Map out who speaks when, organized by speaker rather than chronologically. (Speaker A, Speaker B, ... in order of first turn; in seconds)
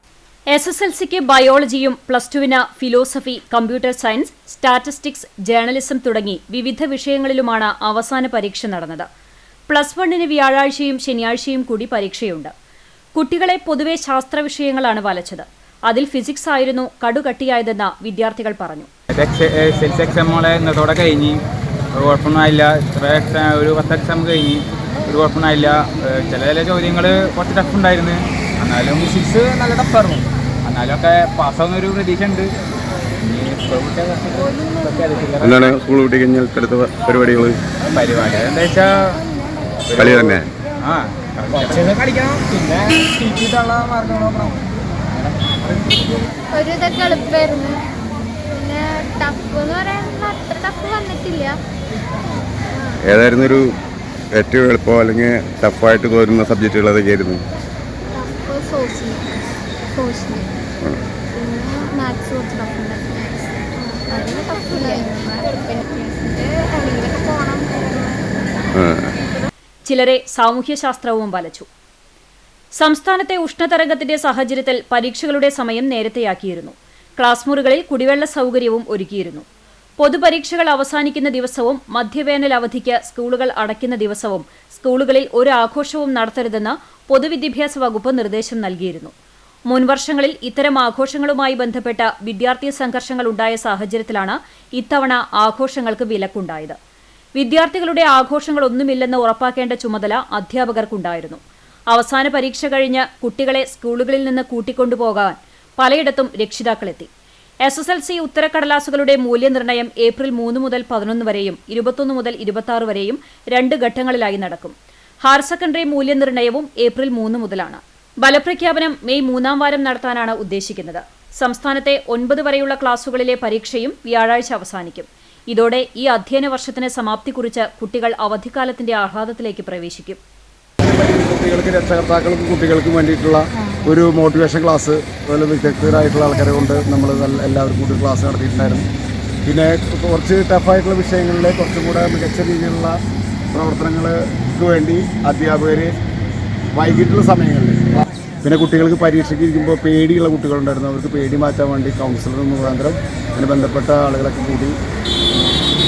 Speaker A: 0.5-9.1, 9.7-12.5, 13.2-18.9, 69.9-71.7, 72.8-79.4, 80.0-89.1, 89.7-96.8, 97.4-107.1, 107.6-130.2
Speaker B: 19.1-21.4, 21.9-32.5, 33.2-35.5, 37.9-39.2, 39.9-44.5
Speaker C: 35.4-37.5, 40.0-40.4, 53.0-53.6, 54.4-57.4, 68.7-69.1
Speaker D: 46.5-51.6, 52.7-53.0, 58.1-59.3, 59.9-60.5, 61.3-68.4, 69.2-69.5
Speaker E: 130.8-138.9, 139.4-143.0, 143.5-145.9, 146.7-154.8